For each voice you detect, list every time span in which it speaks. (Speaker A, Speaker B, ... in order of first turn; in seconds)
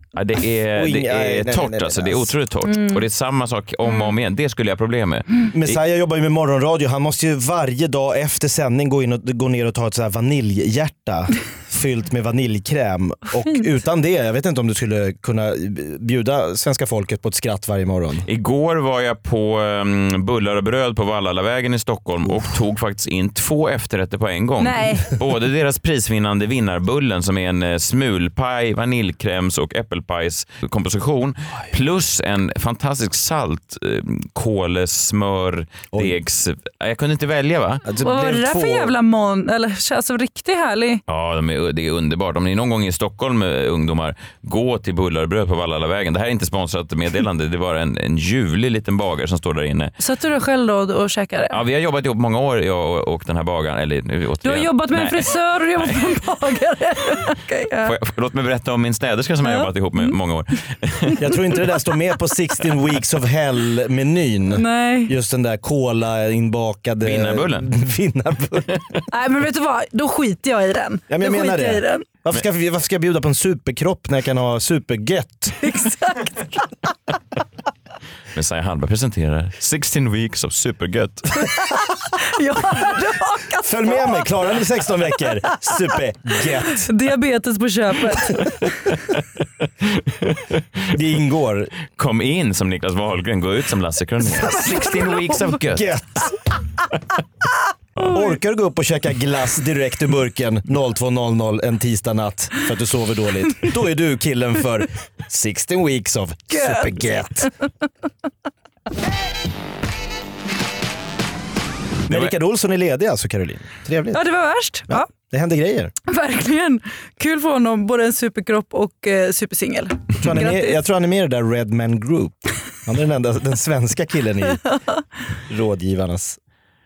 Speaker A: 0.1-5.8, 18.3-37.9, 41.1-49.9, 51.5-56.0, 57.8-61.2, 67.0-67.7, 78.3-81.4, 90.1-90.4, 92.0-95.9
Speaker B: 0.8-2.3, 5.5-18.3, 37.9-38.9, 61.2-69.0, 71.1-75.6, 83.6-86.9, 90.9-91.7, 94.2-96.3, 98.0-107.5, 112.1-114.2, 114.9-115.9, 120.2-124.6, 125.5-126.4
Speaker C: 2.6-3.0, 3.8-4.1, 24.6-25.1, 38.0-41.0, 50.0-51.6, 54.4-58.0, 59.4-60.2, 61.4-61.7, 64.5-65.1, 69.1-72.1, 75.6-76.3, 82.3-84.6, 85.2-88.5, 98.0-98.3, 106.5-107.5, 114.1-115.1, 116.1-120.8